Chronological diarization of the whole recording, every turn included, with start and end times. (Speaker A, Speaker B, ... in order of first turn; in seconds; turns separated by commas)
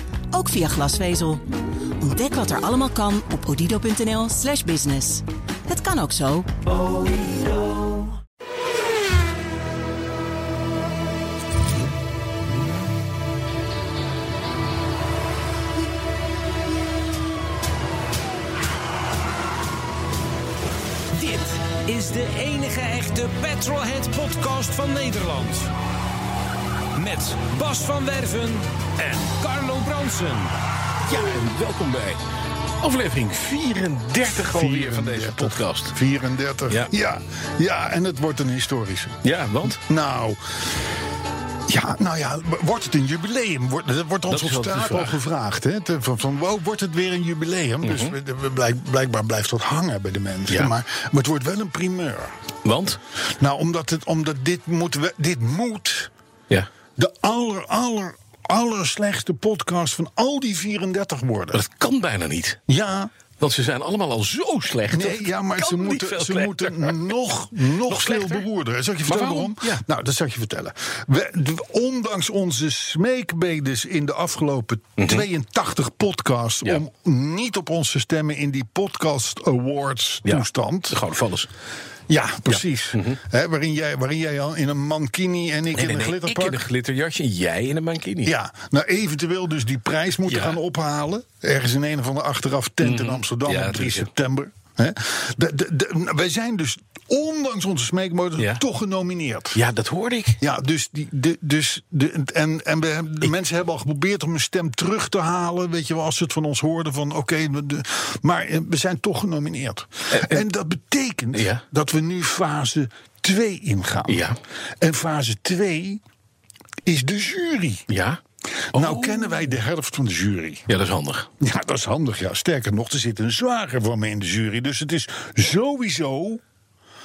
Speaker A: 0.3-1.5, Speaker A: 2.0-6.7, Speaker B: 21.1-25.7, Speaker B: 26.9-30.5, Speaker C: 31.1-32.2, Speaker C: 32.8-36.0, Speaker D: 34.4-39.2, Speaker C: 39.2-39.8, Speaker D: 39.8-40.8, Speaker D: 41.7-52.4, Speaker C: 44.3-45.2, Speaker C: 47.8-48.1, Speaker C: 52.6-53.0, Speaker D: 53.4-56.1, Speaker D: 57.0-61.6, Speaker C: 61.5-62.6, Speaker D: 62.7-63.1, Speaker C: 63.4-67.1, Speaker D: 64.9-81.0, Speaker C: 67.8-68.5, Speaker C: 69.1-69.8, Speaker C: 75.0-75.3, Speaker C: 80.3-81.5, Speaker D: 82.1-86.6, Speaker C: 82.9-83.2, Speaker C: 85.7-88.3, Speaker D: 88.2-99.6, Speaker C: 90.3-90.6, Speaker C: 92.8-94.1, Speaker C: 99.5-100.4, Speaker D: 100.4-114.3, Speaker C: 110.1-110.5, Speaker C: 111.3-111.6, Speaker C: 114.1-114.4, Speaker D: 114.8-116.0, Speaker D: 116.8-117.9, Speaker C: 117.9-118.2, Speaker D: 118.7-120.7, Speaker C: 118.7-119.5, Speaker C: 120.7-121.3, Speaker D: 121.4-126.4